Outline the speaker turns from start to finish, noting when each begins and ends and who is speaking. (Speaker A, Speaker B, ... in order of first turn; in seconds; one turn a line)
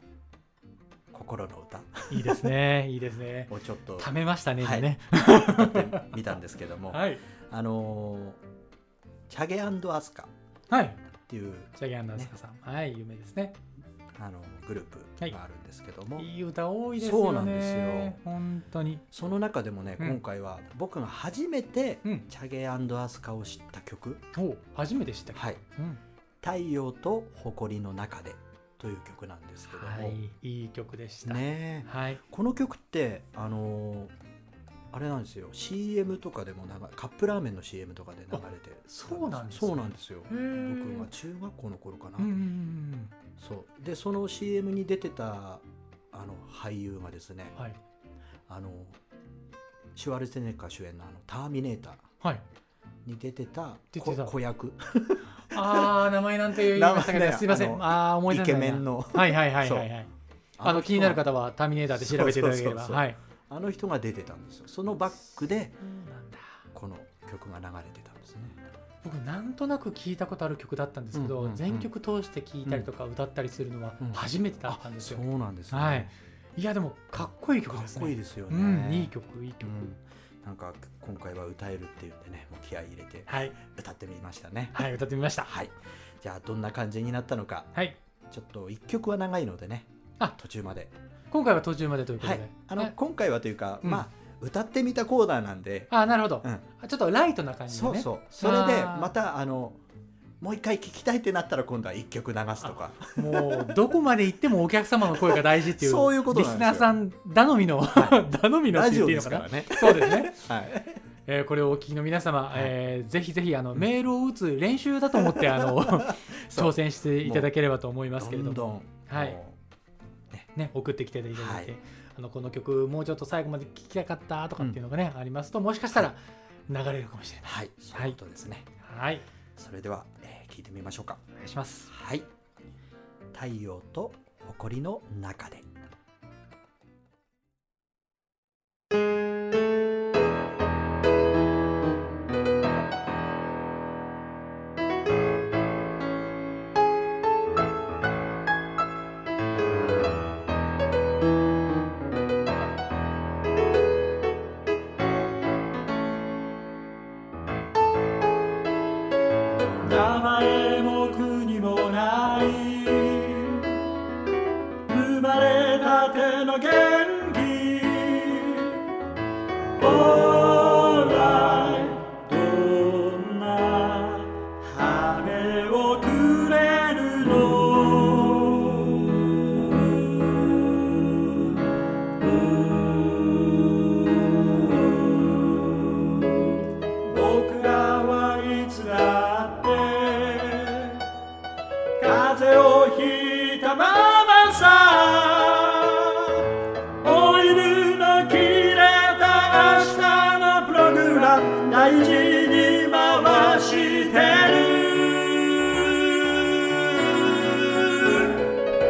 Speaker A: 1.1-2.5
Speaker B: 2.1-6.1
Speaker A: 3.5-8.4
Speaker B: 6.9-7.2
Speaker A: 9.3-10.3
Speaker B: 10.7-11.0
Speaker A: 11.3-12.3
Speaker B: 11.8-13.6
Speaker A: 14.1-16.3
Speaker B: 16.2-19.0
Speaker A: 16.9-18.2
Speaker A: 19.1-24.3
Speaker B: 24.3-26.0
Speaker A: 25.3-25.6
Speaker A: 26.4-30.2
Speaker B: 29.6-32.2
Speaker A: 31.2-34.1
Speaker A: 34.9-42.3
Speaker B: 38.3-41.1
Speaker B: 42.2-43.1
Speaker A: 43.4-47.6
Speaker A: 48.5-49.0
Speaker A: 49.9-52.1
Speaker A: 53.0-56.0
Speaker B: 53.9-54.3
Speaker B: 55.5-60.1
Speaker A: 56.5-59.9
Speaker A: 60.6-61.3
Speaker B: 60.6-63.2
Speaker A: 61.9-65.8
Speaker B: 65.8-66.6
Speaker A: 66.7-68.6
Speaker B: 69.0-79.8
Speaker A: 71.1-71.9
Speaker A: 74.0-76.1
Speaker A: 77.7-84.9
Speaker B: 83.3-83.5
Speaker B: 84.7-85.5
Speaker A: 85.4-87.7
Speaker A: 88.3-90.9
Speaker B: 91.3-92.9
Speaker A: 92.2-96.6
Speaker B: 95.9-99.1
Speaker A: 97.7-99.8
Speaker A: 100.4-103.8
Speaker B: 103.1-110.4
Speaker A: 105.1-106.9
Speaker A: 107.9-111.0
Speaker B: 111.3-119.4
Speaker A: 115.1-117.5
Speaker A: 118.2-119.6
Speaker B: 120.5-128.2
Speaker A: 121.3-121.7
Speaker A: 127.4-128.7
Speaker B: 128.8-129.2
Speaker A: 129.6-131.2
Speaker B: 131.4-131.9
Speaker A: 131.9-132.3
Speaker A: 133.3-135.7
Speaker C: 159.8-163.7
Speaker C: 164.9-168.8
Speaker C: 169.8-180.6
Speaker C: 182.2-186.4
Speaker C: 187.0-191.0
Speaker C: 192.0-196.4
Speaker C: 197.0-208.3